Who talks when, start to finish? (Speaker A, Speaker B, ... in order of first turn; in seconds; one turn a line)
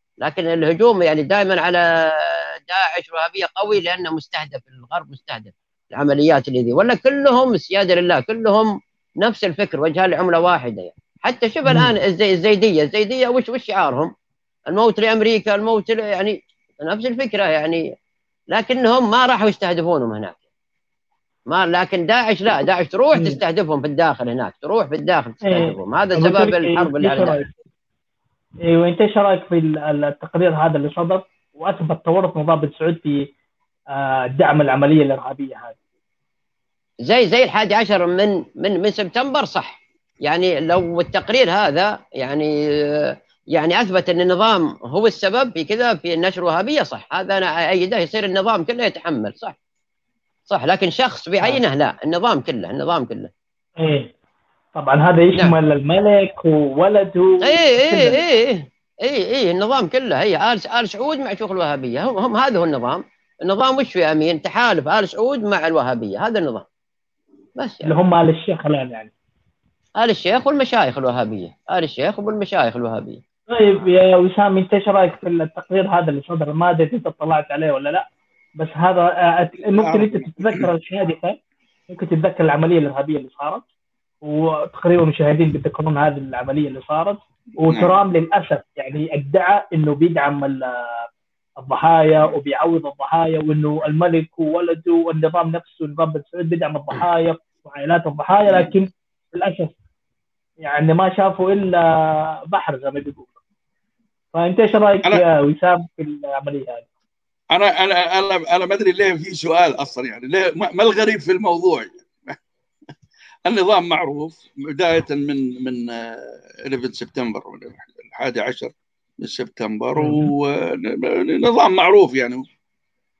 Speaker A: 0.2-14.1
Speaker B: 11.7-11.9
Speaker A: 14.7-17.9
Speaker A: 18.5-20.4
Speaker A: 21.5-27.4
Speaker B: 25.5-27.5
Speaker B: 28.7-33.3
Speaker B: 33.9-35.8
Speaker A: 37.0-49.5
Speaker A: 50.5-53.3
Speaker B: 53.8-54.1
Speaker B: 54.8-58.2
Speaker A: 57.4-66.7
Speaker A: 67.6-68.0
Speaker B: 67.8-69.1
Speaker A: 70.0-73.2
Speaker B: 73.5-78.1
Speaker B: 78.6-81.4
Speaker C: 79.8-80.7
Speaker B: 81.9-83.6
Speaker B: 84.2-91.0
Speaker C: 87.7-88.0
Speaker B: 91.6-99.8
Speaker B: 100.6-103.3
Speaker B: 104.3-106.9
Speaker C: 107.5-112.4
Speaker C: 113.5-122.4
Speaker B: 120.0-120.3